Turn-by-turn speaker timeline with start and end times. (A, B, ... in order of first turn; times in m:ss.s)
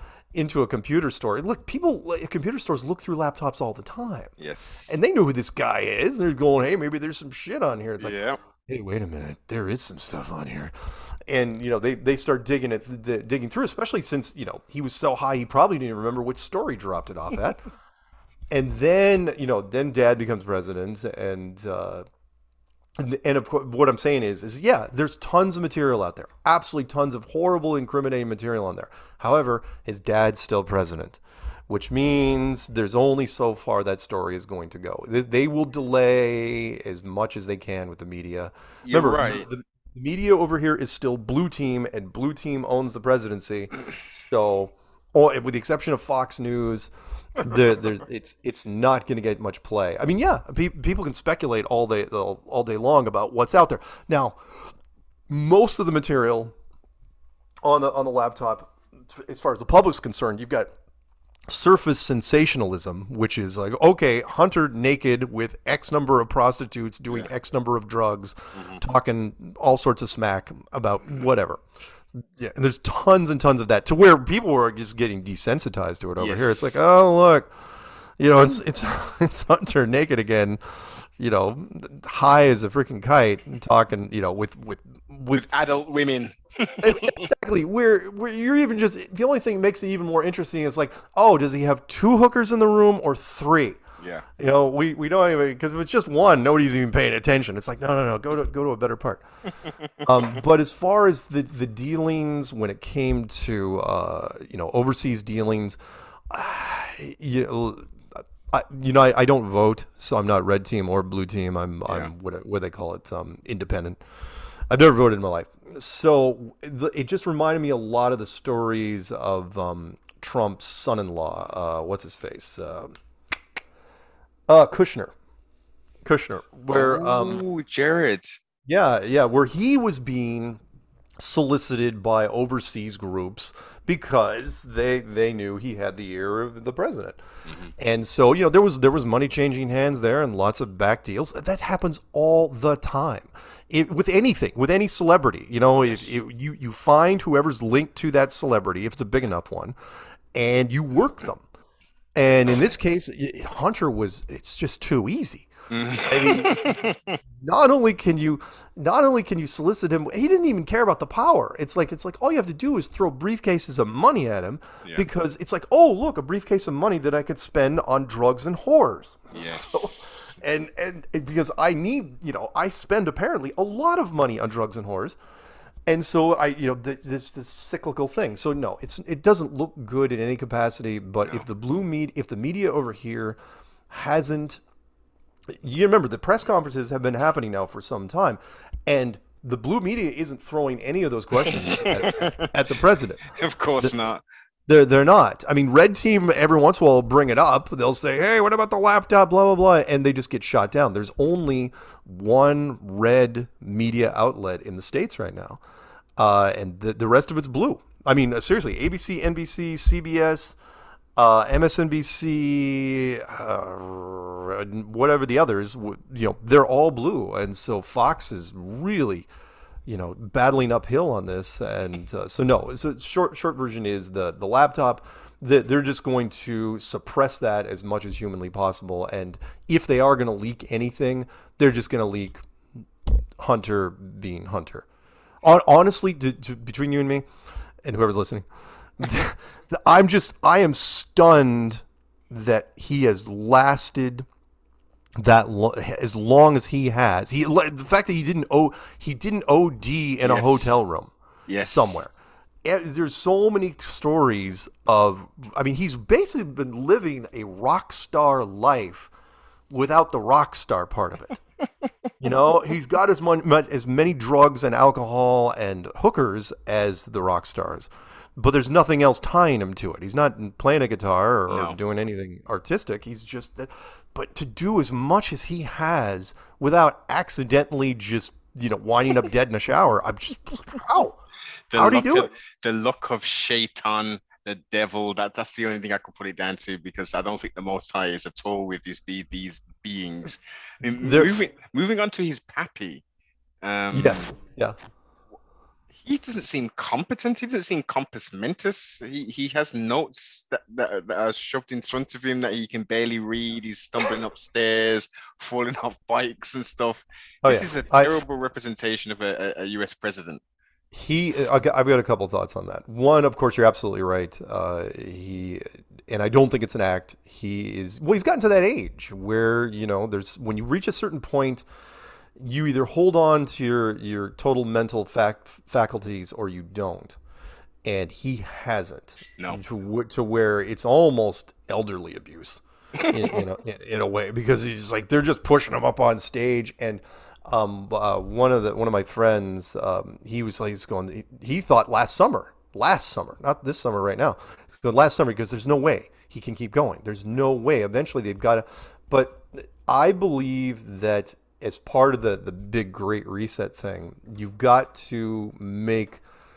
0:00.3-0:04.3 A
0:04.4-0:05.0 B
0:04.9-0:08.1 A
0:08.0-0:08.4 B
0:08.7-0:17.6 A
0:18.5-0:22.0 A
0:23.0-0:54.7 A
0:38.8-0:39.5 B
0:55.3-0:56.5 A
0:57.6-1:00.7 A
1:01.5-1:11.6 A
1:08.5-1:08.8 B
1:12.1-1:17.5 A
1:16.2-1:16.8 B
1:18.2-1:25.5 A
1:25.3-1:27.3 B
1:26.8-1:33.8 A
1:34.0-1:34.3 B
1:34.4-1:39.2 A
1:39.8-1:40.0 B
1:40.0-1:45.8 A
1:46.3-1:54.0 A
1:54.7-2:02.9 A
2:04.5-2:05.1 A
2:06.0-2:07.4 A
2:06.7-2:08.4 B
2:08.6-2:10.6 A
2:11.2-2:17.2 A
2:17.5-2:17.7 B
2:17.8-2:29.7 A
2:30.3-2:31.4 A
2:32.1-2:35.5 A
2:35.7-2:37.2 B
2:36.0-2:36.7 A
2:37.4-2:55.2 A
2:49.3-2:50.4 B
2:55.9-3:03.4 A
3:03.9-3:04.6 A
3:05.5-3:13.2 A
3:11.4-3:12.5 B
3:13.3-3:14.2 B
3:14.7-3:25.6 A
3:26.2-3:30.6 A
3:31.2-3:39.3 A
3:39.8-3:52.4 A
3:53.1-3:54.8 A
3:55.4-3:57.3 A
3:57.8-3:58.5 A
3:59.0-4:04.3 A
4:05.2-4:12.1 A
4:10.2-4:10.7 B
4:11.5-4:12.0 B
4:12.6-4:19.1 A
4:19.7-4:21.4 A
4:22.2-4:41.2 A
4:31.5-4:31.8 B
4:41.7-4:53.0 B
4:41.7-4:42.3 A
4:51.0-4:51.3 A
4:53.6-4:54.3 B
4:53.9-4:54.8 A
4:56.0-5:10.4 B
5:07.4-5:08.2 A
5:10.9-5:21.6 A
5:22.4-5:27.2 A
5:27.8-5:56.2 A